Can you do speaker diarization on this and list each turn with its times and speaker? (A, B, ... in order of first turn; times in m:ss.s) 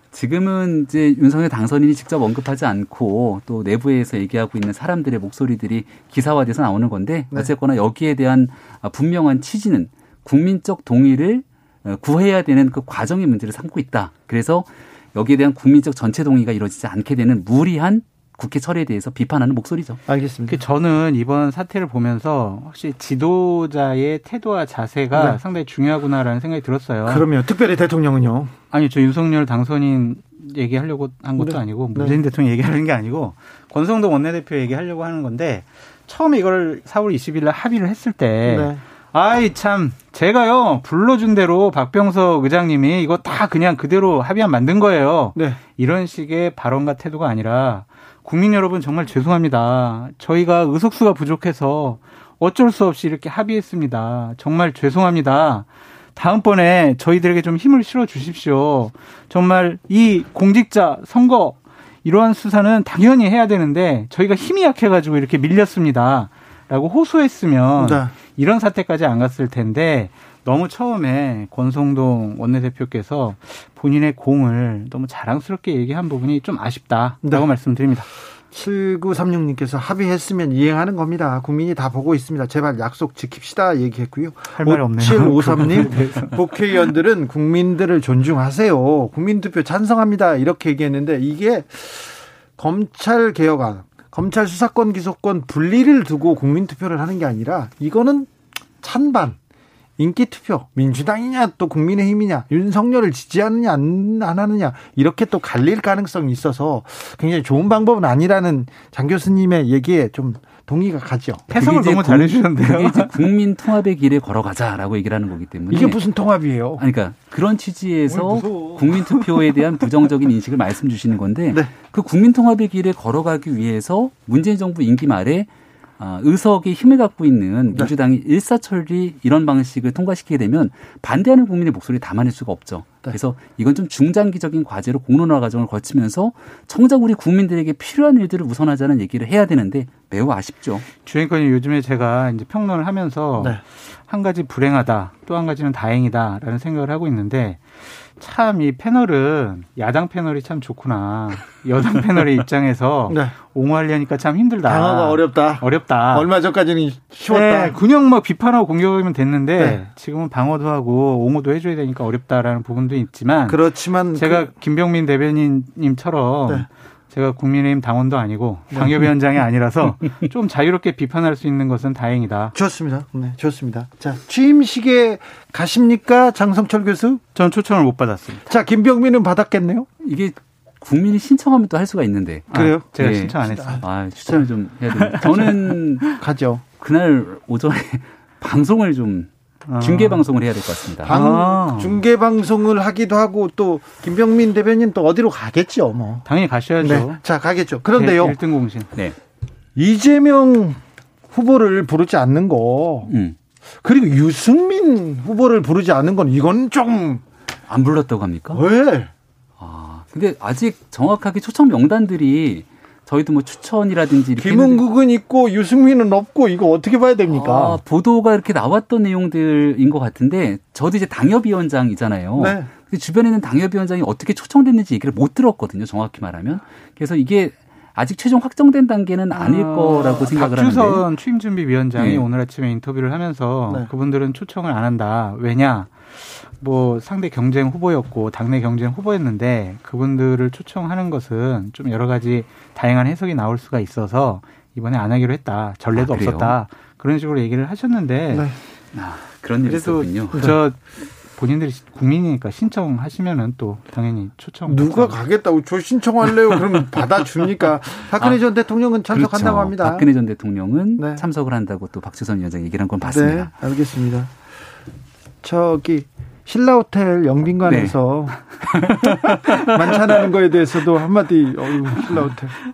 0:00.1-0:20.0 A
0:20.1-0:20.6 B
0:20.5-0:27.2 C
0:25.1-0:25.4 B
0:27.0-0:28.5 B
0:28.7-1:18.1 C
0:31.4-0:32.2 B
0:38.4-0:38.8 B
0:45.3-0:45.6 B
1:07.8-1:08.1 B
1:18.5-1:39.4 B
1:24.5-1:26.4 C
1:40.0-1:51.5 B
1:51.5-1:53.1 C
1:51.5-1:56.0 A
1:55.7-1:56.8 B
1:56.8-2:20.9 A
1:58.2-1:58.6 B
2:21.0-2:36.3 C
2:33.1-2:33.3 B
2:34.6-2:37.8 B
2:37.3-2:43.6 C
2:43.4-2:44.5 B
2:44.2-2:52.5 C
2:48.7-2:49.0 B
2:52.5-2:57.2 B
2:57.3-2:58.4 C
2:58.4-2:59.9 B
3:00.0-3:06.1 A
3:02.5-3:03.8 C
3:02.5-3:04.4 B
3:05.1-3:06.1 C
3:06.1-3:06.6 B
3:06.8-3:11.2 A
3:09.7-3:10.2 C
3:11.0-3:12.0 C
3:11.0-3:16.2 B
3:16.2-3:17.2 C
3:16.8-3:18.4 B
3:17.9-3:18.9 C
3:19.8-3:20.8 B
3:21.3-3:23.1 B
3:23.1-3:23.4 A
3:23.8-3:27.2 B
3:27.7-3:28.6 A
3:28.5-3:29.1 B
3:29.6-3:34.8 A
3:34.4-3:37.8 B
3:37.3-3:51.0 A
3:42.4-3:42.7 B
3:49.3-4:08.5 C
3:52.0-3:52.2 A
4:05.9-4:06.6 A
4:08.9-4:10.5 A
4:09.6-4:15.2 C
4:14.6-4:20.1 B
4:19.1-4:23.5 A
4:21.0-4:21.2 B
4:23.0-4:24.3 B
4:25.4-4:28.9 B
4:27.6-4:30.0 A
4:29.6-4:32.5 B